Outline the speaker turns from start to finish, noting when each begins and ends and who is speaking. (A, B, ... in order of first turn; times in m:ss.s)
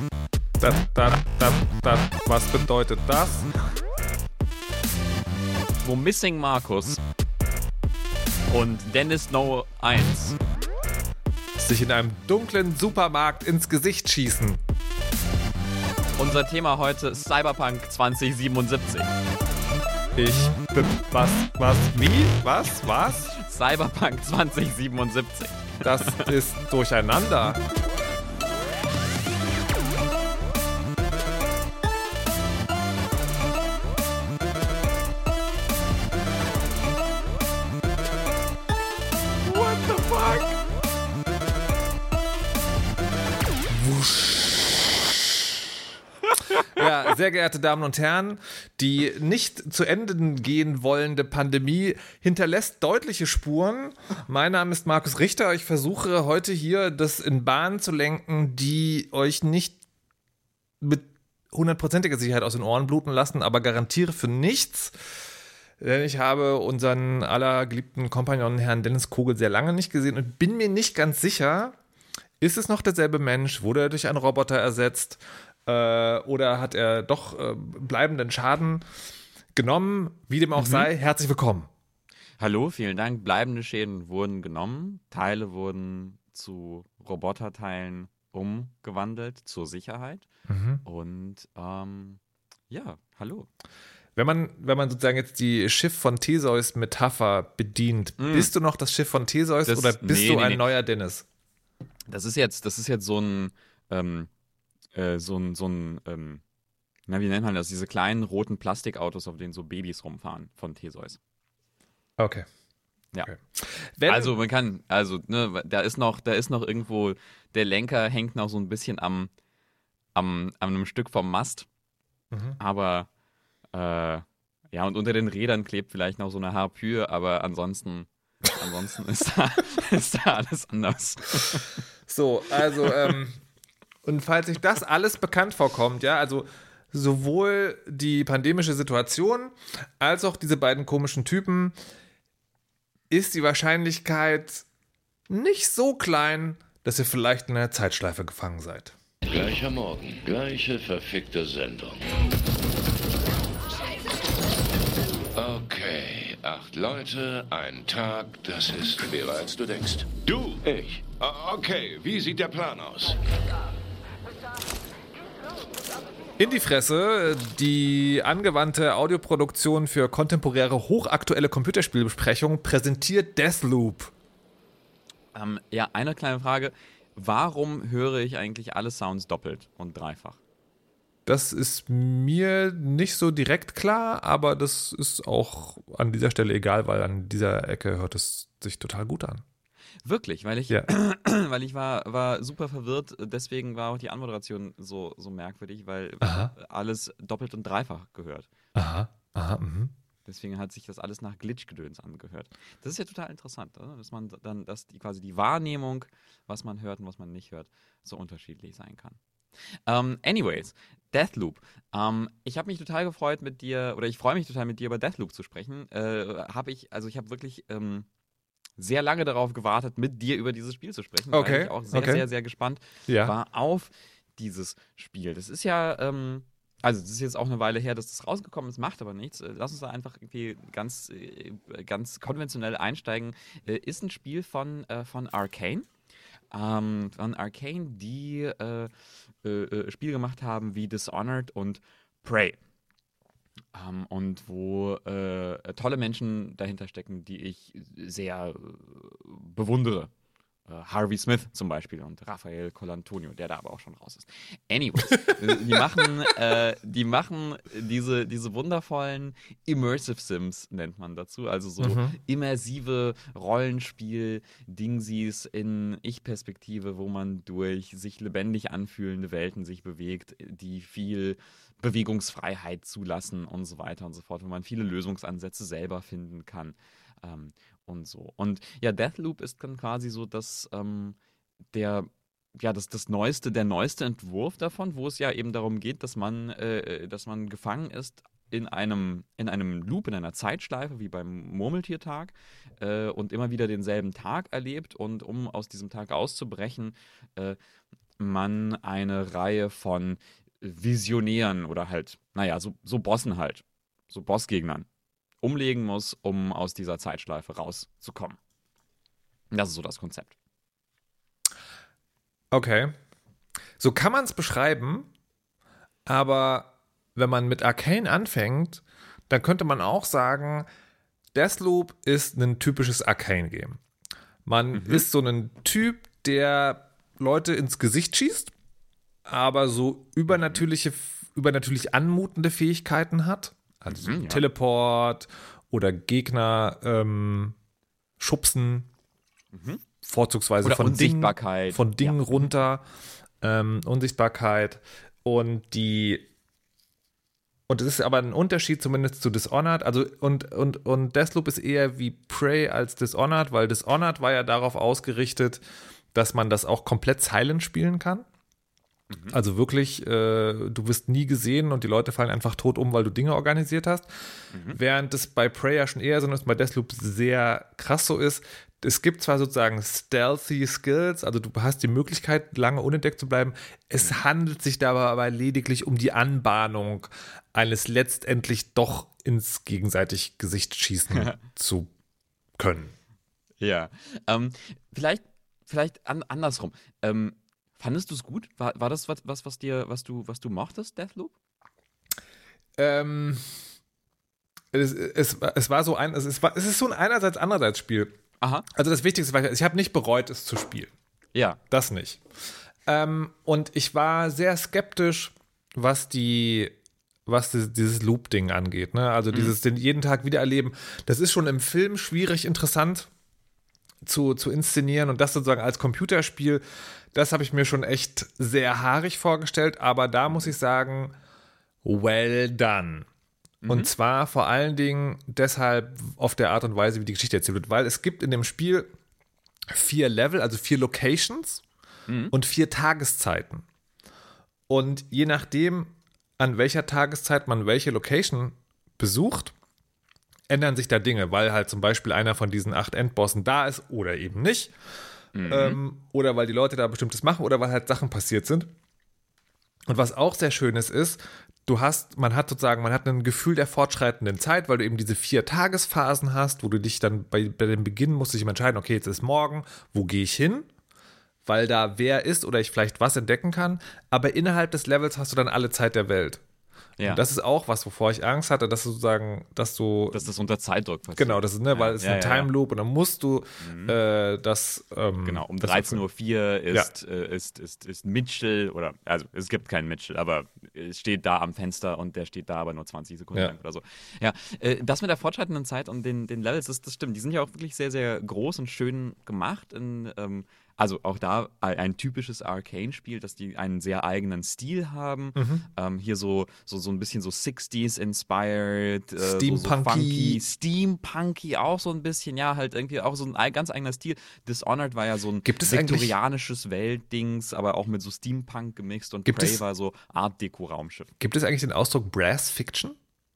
0:00.6-0:03.5 A
0:05.8-0:07.0 B
0:08.5-0:10.4 B
0:11.6-0:14.6 A
0:16.2-0:19.1 B
0:20.2-0:23.3 A
0:23.3-0:26.3 B
0:25.8-0:27.6 A
0:39.5-0:40.5 B
0:43.7-0:45.0 A
0:46.7-0:59.8 A
1:00.8-1:05.0 A
1:05.8-1:11.8 A
1:12.4-1:18.8 A
1:19.6-1:21.7 A
1:20.6-1:20.9 B
1:22.4-1:30.3 B
1:30.5-1:30.8 A
1:30.8-1:33.5 B
1:34.2-1:41.2 A
1:38.2-1:38.5 B
1:39.7-1:40.7 B
1:42.1-1:44.3 B
1:44.9-1:46.4 B
1:47.1-1:51.2 B
1:52.2-1:52.5 A
1:53.3-1:54.4 A
1:54.1-1:59.3 B
2:00.2-2:01.7 B
2:02.3-2:02.6 A
2:02.6-2:03.1 B
2:03.7-2:11.8 B
2:12.1-2:13.4 A
2:14.0-2:21.8 A
2:23.1-2:24.6 A
2:25.3-2:29.0 A
2:29.3-2:32.0 C
2:35.4-2:43.2 C
2:46.4-2:54.1 A
2:55.3-3:00.4 B
3:01.3-3:09.4 A
3:10.0-3:18.5 B
3:16.2-3:16.5 A
3:18.8-3:19.9 A
3:20.3-3:29.2 B
3:29.9-3:38.1 B
3:38.8-3:55.9 B
3:41.3-3:42.3 A
3:43.1-3:43.3 A
3:56.5-3:58.9 B
3:59.4-4:02.6 B
4:03.7-4:10.1 B
4:10.7-4:41.2 B
4:15.1-4:15.8 A
4:21.8-4:22.2 A
4:41.7-4:57.6 B
4:58.2-5:04.9 B
5:05.4-5:08.4 B
5:09.5-5:10.4 B
5:12.5-5:13.0 A
5:13.8-5:15.1 A
5:16.1-5:20.7 A
5:21.3-5:23.8 A
5:24.5-5:28.5 A
5:24.7-5:25.1 B
5:29.3-5:37.6 A
5:30.3-5:30.6 B
5:33.9-5:34.4 B
5:38.2-5:38.9 A
5:39.5-5:39.8 B
5:40.0-5:42.8 A
5:40.6-5:42.5 B
5:43.4-5:46.3 A
5:47.7-5:55.6 A
5:56.1-5:58.3 A
5:59.1-5:59.4 B
5:59.3-6:04.1 A
6:04.7-6:21.9 A
6:21.1-6:21.4 B
6:22.6-6:22.9 A
6:23.6-6:31.3 B
6:32.8-6:33.4 A
6:34.7-6:38.2 A
6:38.4-6:38.7 B
6:38.8-6:40.9 A
6:41.7-6:42.2 A
6:42.9-6:46.7 A
6:47.3-6:53.1 A
6:54.0-7:01.2 A
7:01.8-7:03.1 A
7:03.6-7:03.9 B
7:03.7-7:08.9 A
7:09.7-7:11.6 A
7:12.1-7:12.3 B
7:12.3-7:13.6 A
7:14.7-7:19.5 A
7:20.5-7:24.7 A
7:25.4-7:25.8 B
7:25.5-7:28.7 A
7:29.9-7:40.7 A
7:41.5-7:46.4 A
7:47.0-7:50.2 A
7:50.1-7:52.5 B
7:51.2-7:56.0 A
7:53.6-7:54.0 B
7:55.2-8:31.1 B
8:15.4-8:15.6 A
8:19.2-8:20.4 A
8:25.4-8:26.1 A
8:29.3-8:29.6 A
8:31.2-8:33.0 A